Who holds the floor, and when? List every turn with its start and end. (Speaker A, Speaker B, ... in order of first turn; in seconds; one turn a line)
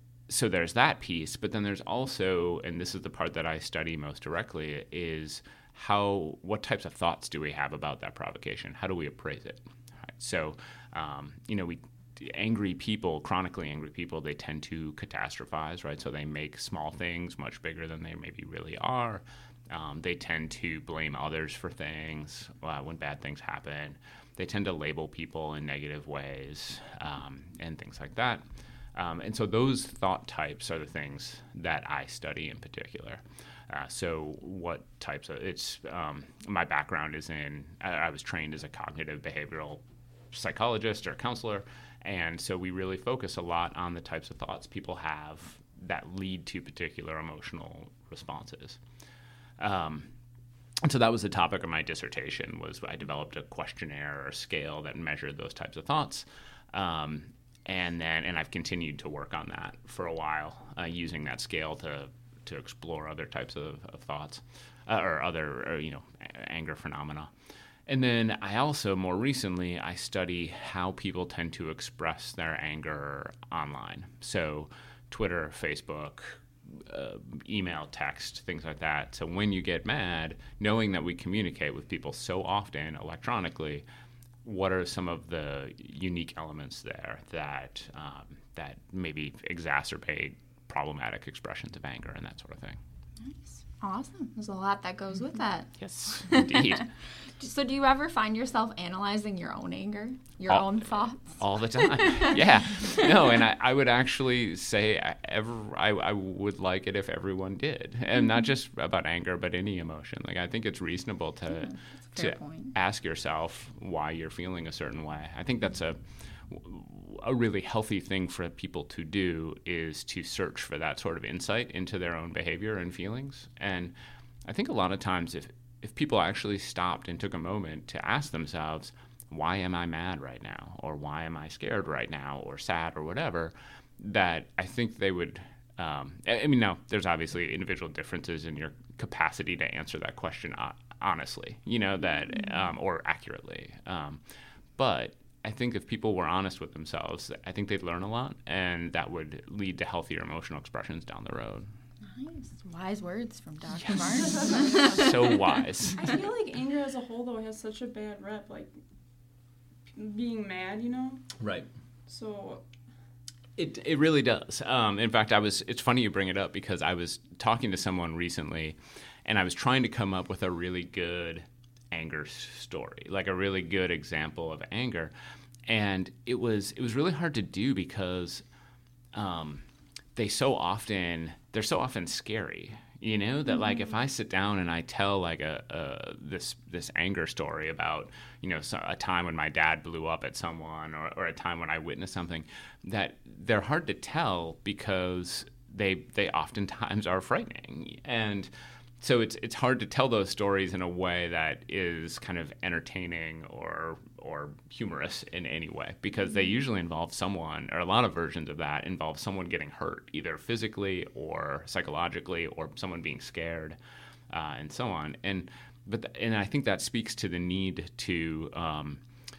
Speaker A: 0.3-28.4
Speaker A: 28.9-39.8
Speaker A: 40.3-48.8
Speaker A: 49.6-50.1
Speaker A: 50.8-67.3
Speaker A: 67.9-83.8
Speaker A: 84.4-92.8
Speaker B: 93.2-96.8
Speaker A: 95.8-96.9
Speaker B: 97.4-103.1
Speaker A: 100.5-123.9
Speaker B: 112.1-112.7
Speaker A: 124.4-144.2
Speaker A: 144.8-151.7
Speaker B: 152.1-155.4
Speaker A: 153.8-156.1
Speaker C: 155.9-158.7
Speaker C: 159.9-161.2
Speaker A: 161.4-161.7
Speaker C: 162.1-162.6
Speaker A: 163.6-175.1
Speaker A: 175.7-178.4
Speaker A: 179.1-179.6
Speaker A: 180.2-213.8
Speaker A: 214.3-219.0